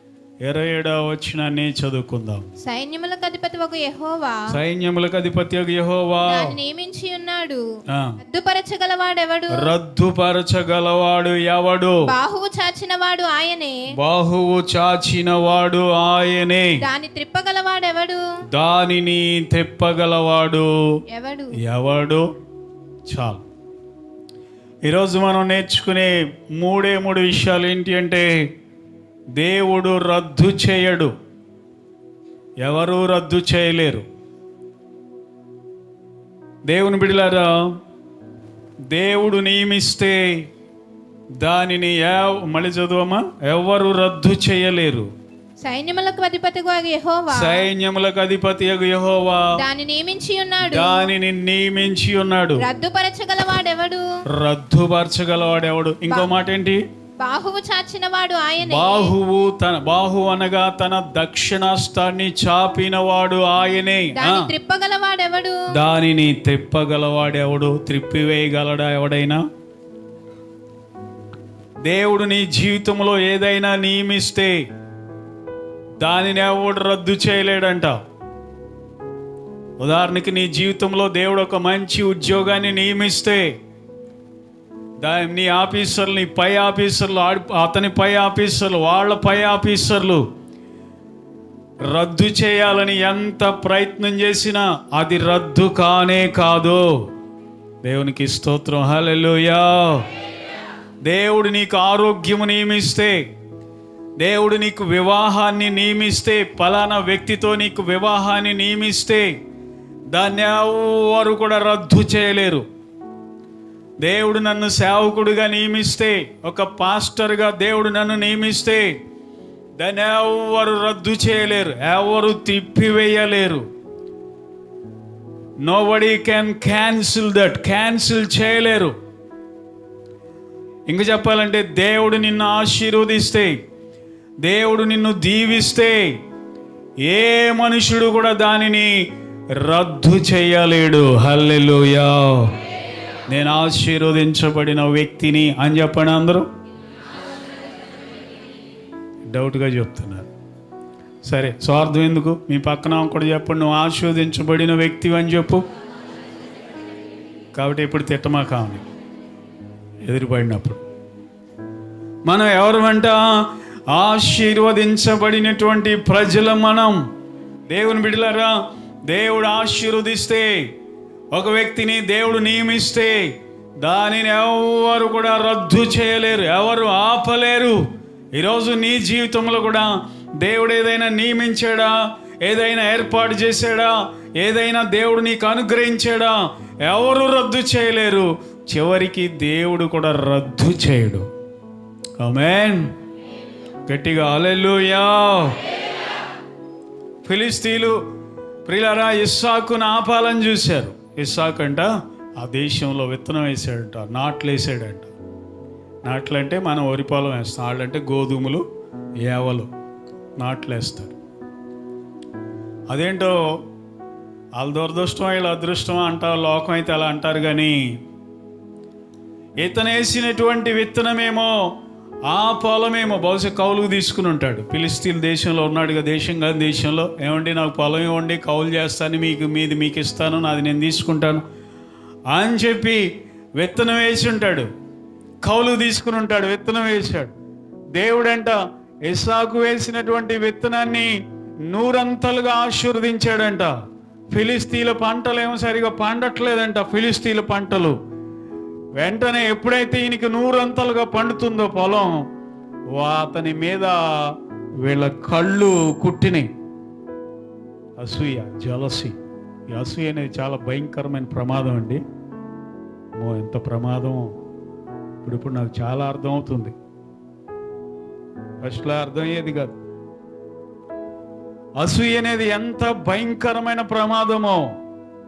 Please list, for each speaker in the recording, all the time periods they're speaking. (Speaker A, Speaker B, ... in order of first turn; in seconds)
Speaker A: 0.4-2.5, 4.5-6.6, 7.9-8.2, 9.5-12.1, 13.9-16.8, 18.5-20.7, 21.6-22.2, 23.1-23.4, 24.9-28.3, 29.4-31.1, 32.6-34.1, 36.7-37.5, 38.9-40.5, 41.4-45.1, 47.3-49.5, 50.6-52.6, 54.3-56.8, 58.6-64.5, 65.7-69.4, 71.8-74.6, 76.0-78.0, 79.8-83.5, 85.0-90.2, 91.8-97.0, 97.8-100.1, 101.0-103.2, 104.2-109.4, 110.1-112.7, 114.0-119.0, 119.8-123.7, 125.6-128.9, 130.9-133.6, 134.4-136.2, 137.0-142.5, 143.3-146.5, 149.3-150.3, 151.2-155.7, 157.6-158.8, 160.1-160.8, 162.2-167.0, 167.7-170.7, 171.3-177.8, 178.3-191.3, 192.2-192.9, 193.9-195.6, 197.2-198.0, 198.7-205.1, 206.0-208.6, 209.2-209.7, 210.4-211.2, 212.9-213.4, 214.6-218.0, 219.6-221.7, 222.3-231.4, 232.3-234.7, 235.4-237.3, 237.9-241.1, 241.7-243.7, 244.3-248.0, 249.0-252.2, 252.9-256.5, 258.0-259.2, 259.7-262.0, 263.1-264.3, 265.2-266.7, 268.6-269.8, 271.8-274.7
Speaker B: 2.6-4.5, 6.2-7.6, 8.2-9.7, 12.1-13.8, 16.8-18.2, 21.1-21.6, 45.6-47.7, 49.6-51.1, 52.6-54.0, 57.2-59.1, 64.2-65.6